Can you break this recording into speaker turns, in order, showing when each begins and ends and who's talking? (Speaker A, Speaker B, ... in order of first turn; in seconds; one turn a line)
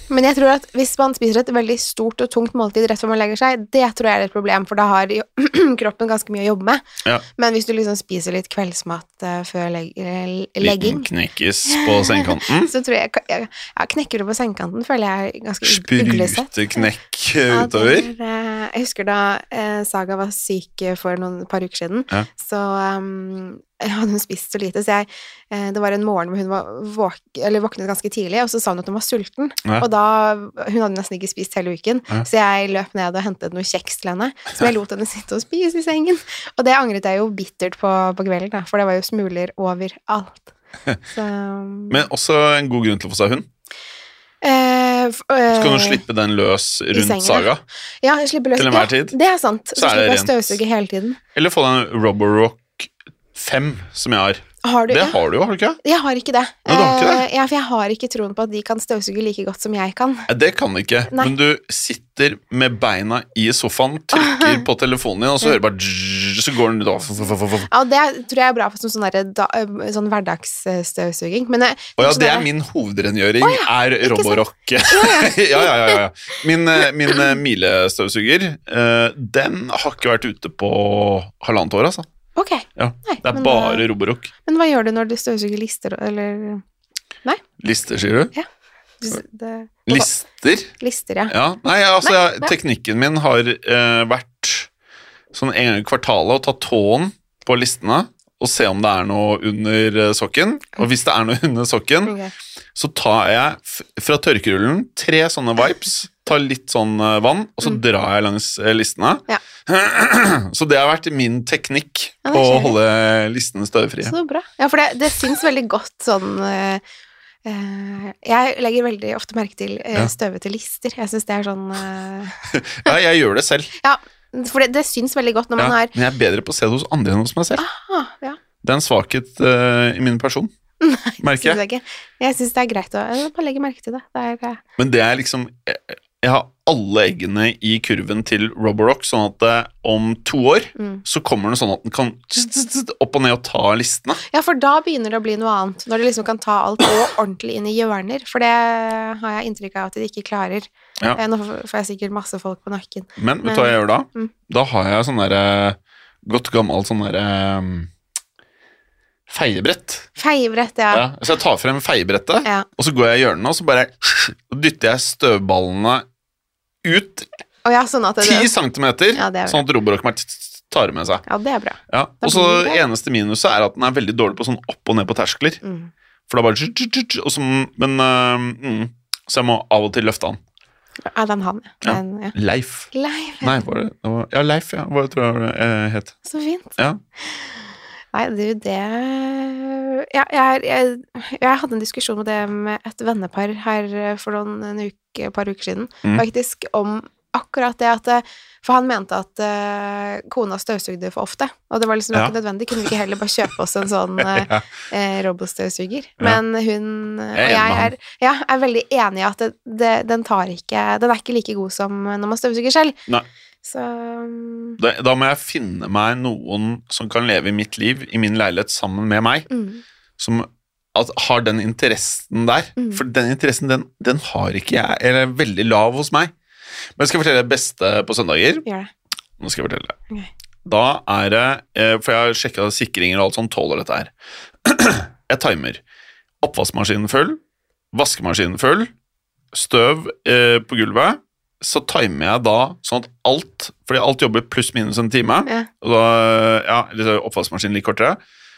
Speaker A: 0.1-6.8
Speaker A: 7.4-11.1
Speaker B: 10.6-12.7
Speaker A: 11.7-16.9
Speaker B: 15.6-18.1
Speaker A: 17.5-40.5
Speaker A: 41.1-42.0
Speaker B: 41.9-43.5
Speaker A: 44.4-46.0
Speaker B: 45.5-47.6
Speaker A: 46.9-47.5
Speaker A: 48.0-51.2
Speaker B: 48.6-49.1
Speaker B: 49.8-50.6
Speaker B: 51.4-55.8
Speaker A: 54.6-55.2
Speaker A: 55.8-60.3
Speaker B: 56.7-57.3
Speaker B: 60.3-67.7
Speaker A: 64.2-64.6
Speaker A: 67.7-72.5
Speaker B: 72.0-82.1
Speaker A: 73.4-76.0
Speaker A: 82.4-83.9
Speaker B: 82.8-84.3
Speaker A: 84.5-86.6
Speaker B: 87.6-88.3
Speaker A: 89.0-90.1
Speaker B: 89.9-90.7
Speaker A: 90.8-91.3
Speaker B: 91.3-94.7
Speaker A: 92.0-92.5
Speaker B: 95.3-102.2
Speaker A: 102.0-102.3
Speaker B: 102.8-114.1
Speaker A: 112.2-112.8
Speaker A: 114.0-116.8
Speaker A: 117.5-122.9
Speaker B: 122.5-123.7
Speaker A: 123.8-125.9
Speaker B: 125.6-127.6
Speaker A: 127.6-128.4
Speaker B: 128.6-130.5
Speaker A: 130.8-134.6
Speaker B: 131.2-131.6
Speaker B: 134.8-144.2
Speaker A: 140.8-141.0
Speaker A: 144.3-154.3
Speaker B: 153.2-157.9
Speaker B: 159.3-160.1
Speaker A: 160.2-161.0
Speaker B: 160.9-166.1
Speaker B: 166.8-167.3
Speaker A: 167.7-168.5
Speaker B: 168.2-171.2
Speaker A: 169.2-169.6
Speaker A: 171.3-172.9
Speaker B: 171.9-175.6
Speaker A: 175.6-175.9
Speaker B: 176.3-180.4
Speaker A: 181.1-182.3
Speaker B: 181.8-182.9
Speaker A: 182.9-183.6
Speaker B: 183.4-186.2
Speaker A: 186.3-186.8
Speaker A: 188.1-213.0
Speaker B: 204.2-204.6
Speaker B: 207.3-207.9
Speaker A: 213.6-214.8
Speaker B: 214.8-219.5
Speaker A: 219.5-219.8
Speaker B: 220.2-226.3
Speaker A: 222.8-223.0
Speaker B: 227.0-228.6
Speaker A: 228.7-228.9
Speaker B: 229.4-230.0
Speaker B: 230.7-234.1
Speaker B: 234.6-235.8
Speaker B: 236.4-237.4
Speaker B: 237.9-238.9
Speaker B: 239.5-248.2